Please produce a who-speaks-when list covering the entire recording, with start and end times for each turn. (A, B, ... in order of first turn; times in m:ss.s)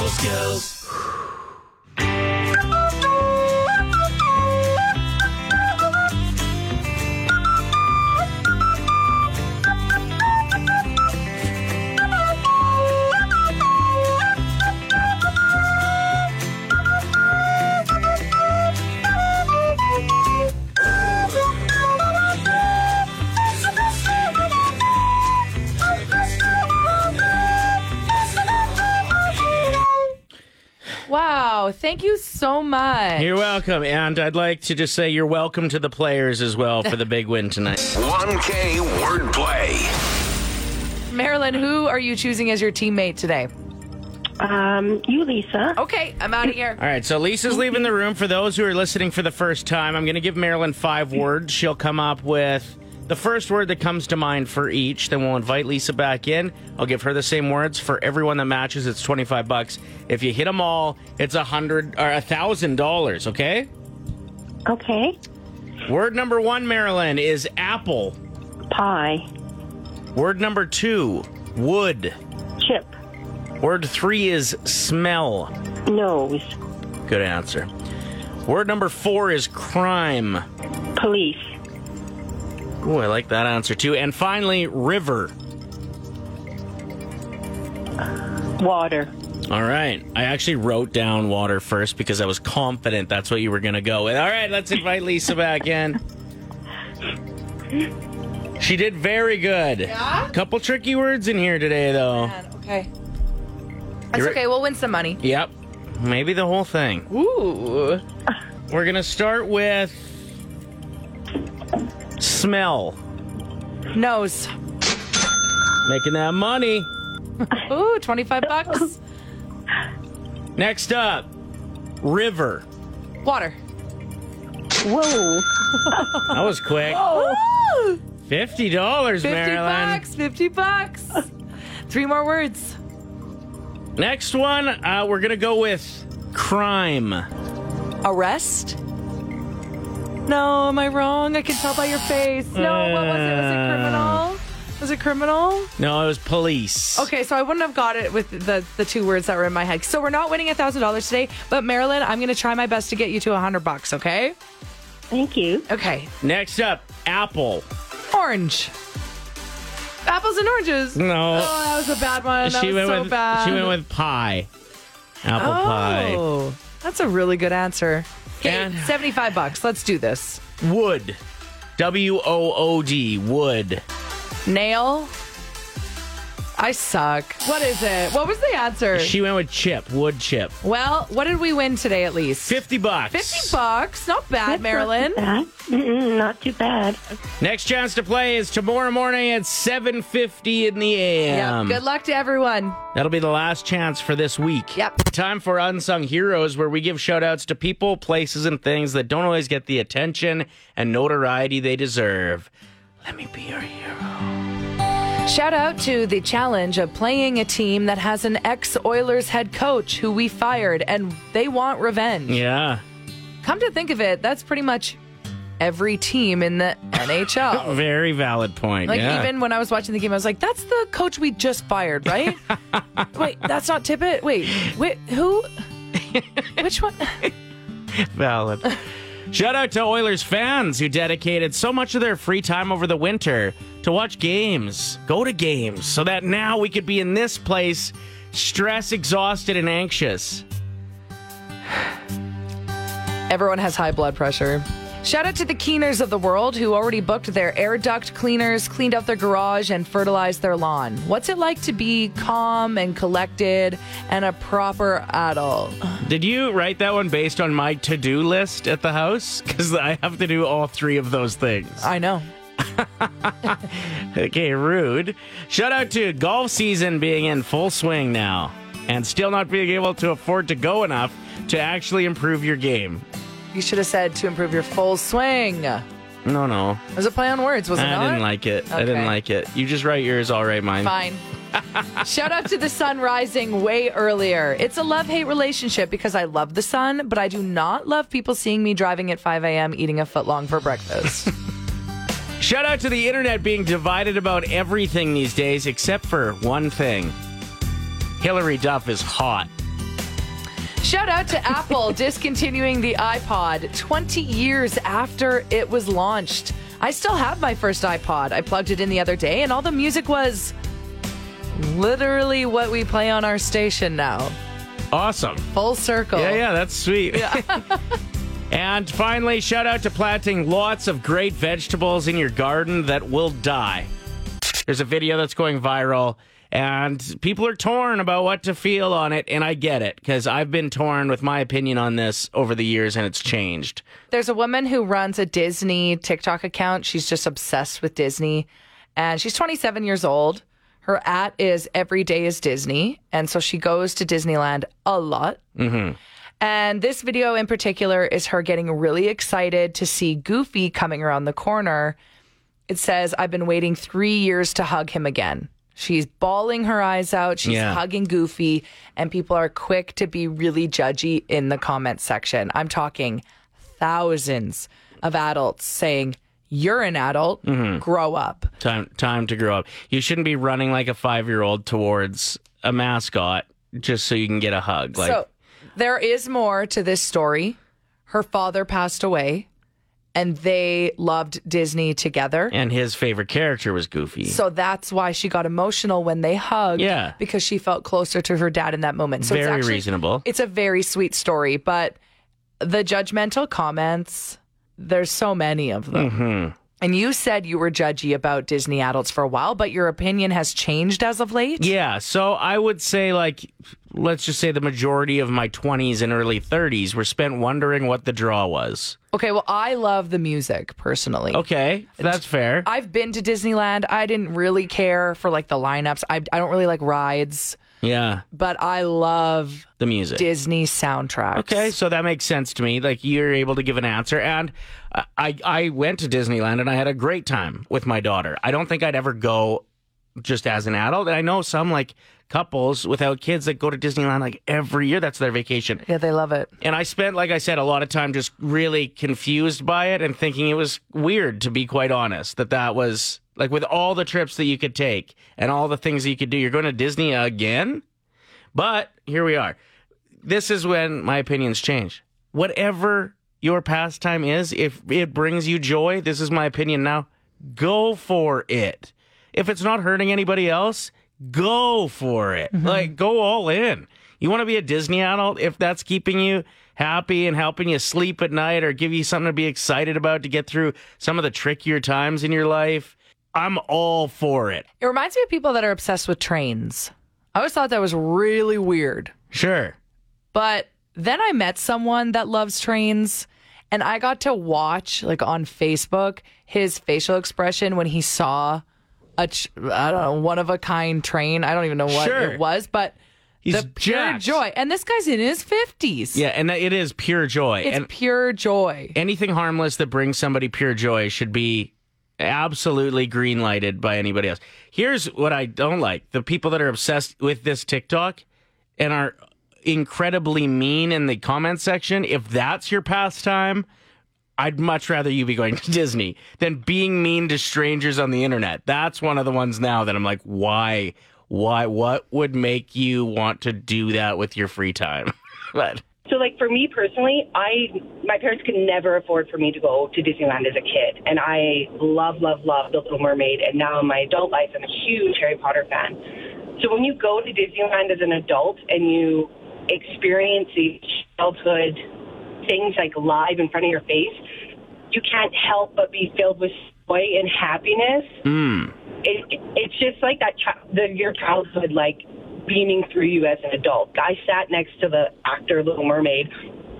0:31.0-0:33.3 A
0:33.2-0:37.9 B
0:37.9-0:39.9 C
0:41.1-0:43.5 A
0:44.4-0:45.8 D
0:45.8-0:46.8 A
0:46.8-1:03.7 B
1:04.6-1:05.2 D
1:05.8-1:08.2 B
1:08.7-1:09.3 D
1:10.1-1:12.1 B
1:12.6-1:12.9 D
1:13.6-1:15.5 B
1:15.9-1:16.5 D
1:17.1-1:17.7 B
1:18.5-1:20.4 B
1:21.0-1:21.4 D
1:22.8-1:25.3 B
1:28.6-1:29.1 D
1:29.5-1:36.0 B
1:38.6-1:42.3 B
1:39.9-1:40.3 A
1:42.1-1:42.9 A
1:44.1-1:45.2 A
1:45.2-1:47.1 B
1:47.1-1:48.0 A
1:48.7-1:50.2 B
1:52.2-1:53.0 B
1:53.9-1:54.5 A
1:55.8-1:56.9 B
1:57.5-1:59.0 A
2:00.6-2:01.3 B
2:02.0-2:02.6 B
2:03.2-2:03.6 A
2:04.8-2:06.2 D
2:06.3-2:07.0 B
2:06.9-2:08.0 A
2:07.0-2:07.3 D
2:08.2-2:10.0 B
2:09.2-2:11.3 A
2:11.9-2:12.8 A
2:14.0-2:17.2 B
2:18.0-2:18.8 A
2:20.2-2:25.7 A
2:22.5-2:24.2 B
2:25.8-2:27.1 B
2:27.0-2:34.3 A
2:35.1-2:35.6 D
2:35.7-2:36.1 A
2:36.2-2:37.6 B
2:38.0-2:38.7 A
2:40.0-2:43.7 A
2:40.9-2:41.5 B
2:42.4-2:44.5 B
2:45.2-2:46.2 B
2:45.4-2:50.4 A
2:48.4-2:49.0 B
2:50.6-2:51.2 B
2:51.8-2:53.8 B
2:54.4-2:55.1 A
2:56.6-2:59.1 A
2:58.9-3:00.6 B
3:00.6-3:02.6 A
3:02.4-3:03.6 B
3:03.1-3:05.2 A
3:04.4-3:07.0 D
3:07.4-3:11.8 B
3:11.3-3:12.8 A
3:12.9-3:22.5 B
3:23.0-3:24.3 B
3:25.2-3:32.4 A
3:32.3-3:32.8 B
3:33.4-3:35.0 A
3:35.6-3:37.8 A
3:37.5-3:39.3 B
3:38.8-3:42.4 A
3:43.1-3:45.5 A
3:46.6-3:47.3 A
3:48.0-3:48.8 B
3:49.3-4:00.4 B
4:03.3-4:16.0 A
4:16.0-4:21.9 B
4:21.8-4:22.3 A
4:22.6-4:33.0 B
4:33.5-4:35.8 A
4:36.2-4:36.8 B
4:36.9-4:39.1 A
4:37.8-4:40.9 B
4:40.8-4:41.2 A
4:42.0-4:51.3 A
4:52.4-4:57.1 B
4:58.2-4:59.5 B
5:00.8-5:10.5 A
5:11.5-5:14.3 A
5:14.9-5:15.4 B
5:15.5-5:16.4 A
5:16.1-5:17.6 B
5:17.1-5:17.6 A
5:18.5-5:23.9 B
5:24.7-5:33.8 B
5:34.1-5:45.4 A
5:45.6-5:46.0 B
5:46.4-5:52.0 A
5:52.7-6:03.2 A
5:57.4-5:57.8 B
6:03.7-6:08.5 A
6:07.4-6:07.8 B
6:08.6-6:15.2 B
6:14.9-6:19.5 A
6:20.1-6:22.5 A
6:22.5-6:24.4 B
6:24.2-6:32.0 A
6:26.8-6:27.2 B
6:29.2-6:30.2 B
6:32.6-6:36.1 A
6:35.9-6:36.6 B
6:36.8-6:41.7 A
6:41.6-6:49.0 B
6:49.1-6:51.4 A
6:51.3-6:52.7 B
6:52.0-6:57.6 A
6:57.8-6:58.2 B
6:58.3-7:01.7 A
6:59.8-7:00.2 B
7:01.3-7:09.6 B
7:10.2-7:15.8 B
7:15.8-7:16.5 A
7:16.6-7:27.8 B
7:28.5-7:29.6 B
7:30.2-7:54.6 B
7:42.6-7:42.9 A
7:54.8-7:59.1 A
7:59.3-7:59.8 B
8:00.3-8:08.6 A
8:09.2-8:13.0 A
8:11.9-8:12.4 B
8:13.4-8:14.4 B
8:13.5-8:16.2 A
8:16.1-8:17.9 B
8:17.6-8:18.9 A
8:18.9-8:28.2 B
8:28.8-8:33.6 B
8:34.4-8:45.8 B
8:46.1-8:56.0 E
8:56.6-9:01.8 E
9:02.4-9:04.2 E
9:04.9-9:08.1 E
9:08.2-9:08.7 B
9:09.0-9:16.3 E